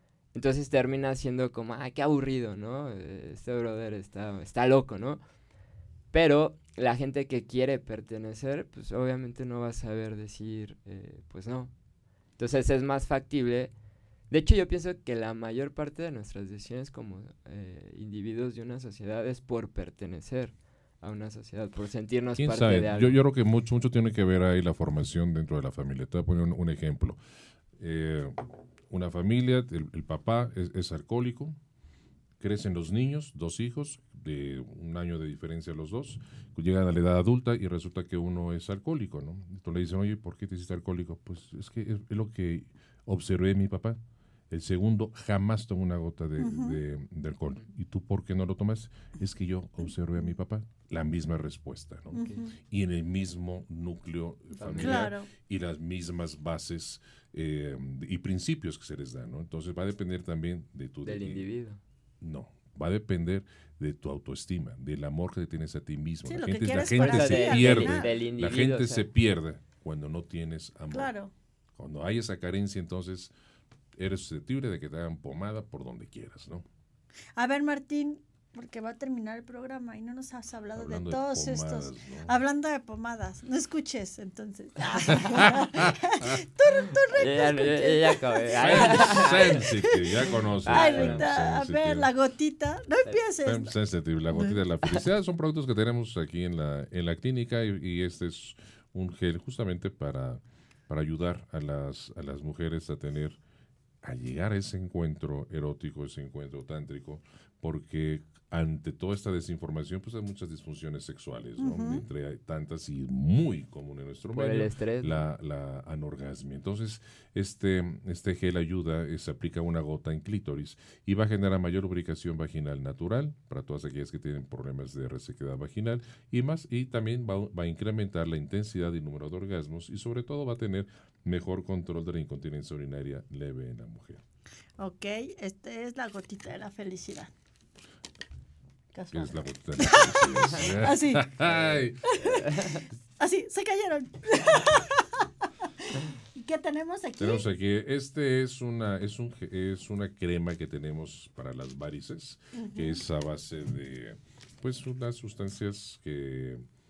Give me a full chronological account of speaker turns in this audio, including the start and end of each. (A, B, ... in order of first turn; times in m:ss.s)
0:00.3-0:05.2 A
0:06.1-0:11.7 A
0:12.4-0:13.7 A
0:14.3-0:23.2 A
0:22.4-0:27.2 B
0:27.8-0:31.6 B
0:32.4-0:44.0 B
0:44.5-1:01.4 B
0:46.4-0:46.8 C
0:52.1-0:52.5 C
0:52.2-0:52.4 A
0:54.5-0:55.1 A
0:54.8-0:55.3 C
1:01.0-1:01.8 A
1:02.2-1:11.1 B
1:06.2-1:08.1 C
1:07.0-1:09.0 A
1:10.9-1:11.3 C
1:11.8-1:13.3 B
1:14.0-1:16.6 B
1:17.4-1:33.7 C
1:20.7-1:22.3 B
1:25.1-1:26.4 B
1:26.9-1:29.6 A
1:28.6-1:32.1 B
1:30.6-1:31.3 A
1:33.4-1:43.4 B
1:34.3-1:34.6 C
1:44.0-2:14.2 B
1:51.6-1:52.0 C
1:54.3-1:55.2 A
2:14.8-2:17.3 C
2:18.9-2:21.3 C
2:19.1-2:22.4 B
2:21.4-2:21.8 A
2:22.0-2:25.2 C
2:22.4-2:22.8 A
2:25.8-2:27.4 C
2:27.2-2:36.6 B
2:32.6-2:33.0 C